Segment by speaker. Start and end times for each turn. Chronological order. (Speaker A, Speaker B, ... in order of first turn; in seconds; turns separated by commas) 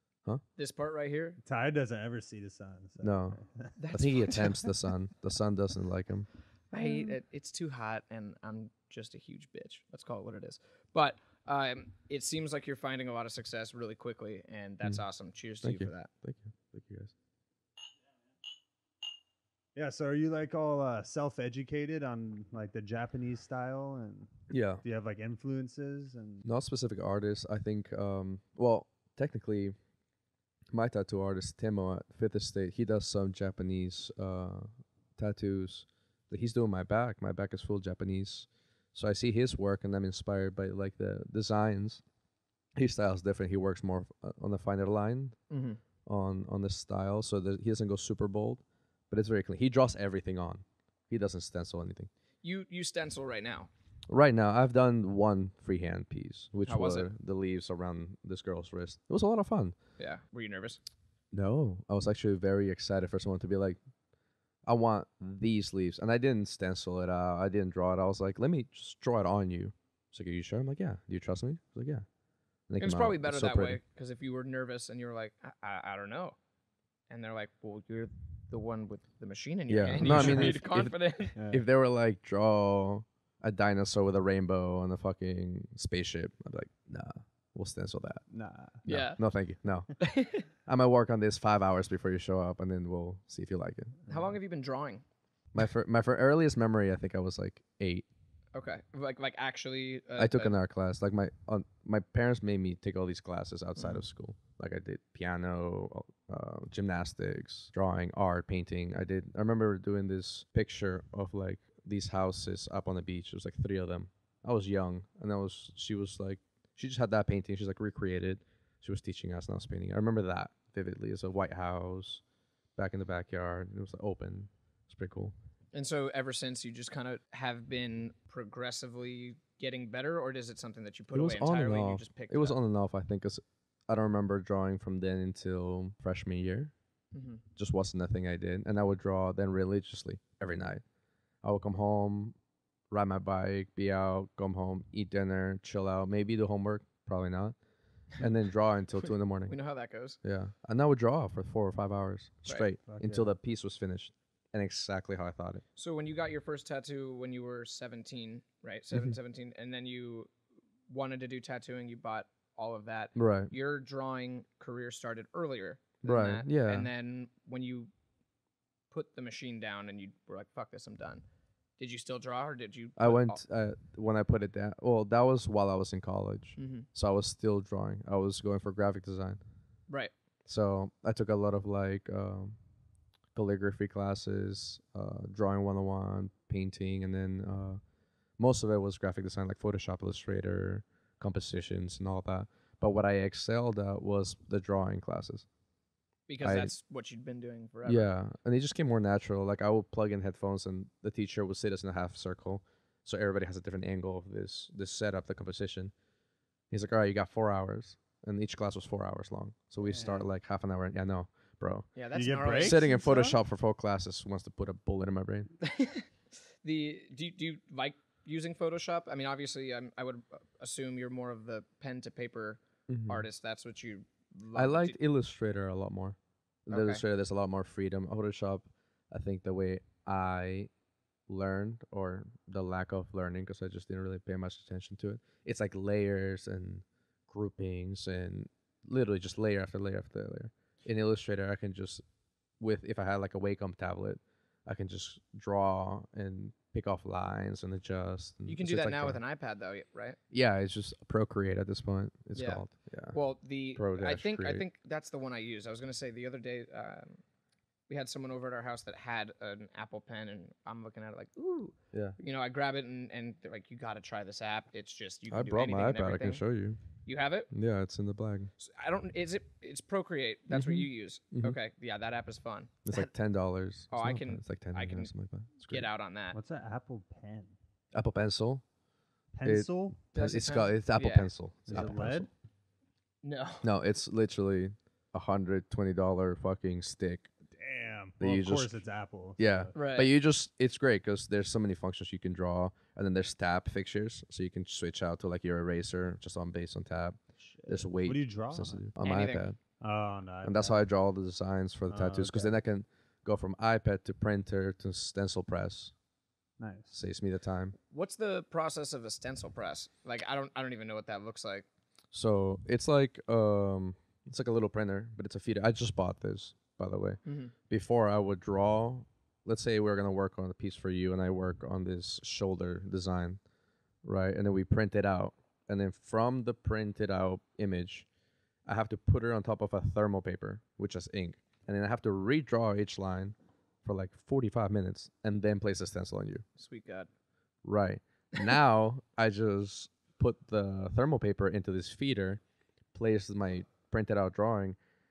Speaker A: 0.6-1.4, Speaker B: 1.4-3.7, Speaker C: 3.0-3.4, Speaker A: 3.8-4.8, Speaker C: 3.9-6.3, Speaker A: 6.7-16.1, Speaker B: 6.8-7.1, Speaker C: 15.6-17.1, Speaker B: 19.8-24.3, Speaker C: 24.5-24.8, Speaker B: 24.8-26.4, Speaker C: 26.4-29.8, Speaker C: 30.7-42.0, Speaker C: 42.8-45.4, Speaker A: 45.5-45.8, Speaker C: 46.0-52.1, Speaker A: 52.4-53.7, Speaker C: 54.1-59.8, Speaker A: 56.7-57.1, Speaker A: 60.0-60.8, Speaker C: 61.3-63.8, Speaker C: 64.6-72.1, Speaker C: 72.7-73.8, Speaker A: 72.8-76.4, Speaker A: 77.1-81.4, Speaker C: 79.7-88.2, Speaker B: 80.0-80.5, Speaker B: 81.4-81.6, Speaker B: 88.3-88.8, Speaker C: 88.8-89.9, Speaker A: 88.9-89.2, Speaker A: 90.0-90.5, Speaker C: 90.7-94.0, Speaker A: 94.1-95.0, Speaker C: 95.5-98.0, Speaker A: 98.5-100.5, Speaker C: 100.2-122.2, Speaker C: 122.8-125.3, Speaker A: 125.7-132.6, Speaker C: 131.1-136.7, Speaker A: 137.1-137.4, Speaker C: 137.6-140.8, Speaker C: 141.4-142.3, Speaker C: 142.9-147.6, Speaker C: 148.2-149.5, Speaker A: 149.5-150.2, Speaker C: 150.2-155.6, Speaker B: 152.9-153.3, Speaker A: 155.8-160.3, Speaker A: 160.9-167.9, Speaker C: 163.2-163.5, Speaker C: 166.0-166.9, Speaker A: 168.9-171.2, Speaker A: 171.8-173.4, Speaker C: 173.0-179.4, Speaker A: 176.6-176.9, Speaker A: 179.9-180.1, Speaker C: 180.5-182.6, Speaker C: 183.3-187.8, Speaker C: 188.4-195.5, Speaker A: 196.3-198.1, Speaker C: 196.4-196.7, Speaker C: 197.8-205.9, Speaker C: 206.7-211.9, Speaker B: 209.8-210.2, Speaker A: 211.9-213.4, Speaker B: 212.1-212.9, Speaker C: 212.4-215.5, Speaker A: 215.6-216.1, Speaker A: 216.6-225.0, Speaker C: 222.9-223.2, Speaker C: 224.6-230.7, Speaker A: 226.7-227.0, Speaker C: 231.3-242.0, Speaker C: 242.6-249.2, Speaker A: 248.5-250.2, Speaker C: 250.3-253.2, Speaker A: 252.3-257.2, Speaker C: 253.7-254.7, Speaker A: 257.9-266.4, Speaker C: 261.9-262.2, Speaker C: 265.3-266.8, Speaker A: 267.1-267.5, Speaker C: 267.5-268.5, Speaker A: 268.6-273.1, Speaker C: 270.5-271.6, Speaker C: 272.9-275.9, Speaker A: 273.9-275.1, Speaker A: 275.7-276.4, Speaker B: 276.3-277.5, Speaker C: 277.9-278.6, Speaker B: 279.4-280.0, Speaker C: 279.4-282.3, Speaker A: 280.1-282.0, Speaker B: 281.7-282.3, Speaker A: 283.2-283.7, Speaker C: 283.6-287.3, Speaker B: 287.5-289.8, Speaker C: 288.2-288.8, Speaker C: 289.4-299.6, Speaker A: 289.8-290.1, Speaker B: 297.4-298.9, Speaker A: 299.0-299.5, Speaker B: 299.8-300.8, Speaker C: 300.4-305.9, Speaker B: 301.9-302.5, Speaker B: 306.6-306.9, Speaker C: 306.9-307.8, Speaker A: 307.9-311.7, Speaker C: 312.1-323.4, Speaker A: 317.2-317.5, Speaker C: 324.0-328.1, Speaker C: 328.7-336.4, Speaker A: 336.6-337.1, Speaker C: 337.6-342.4, Speaker C: 342.9-344.8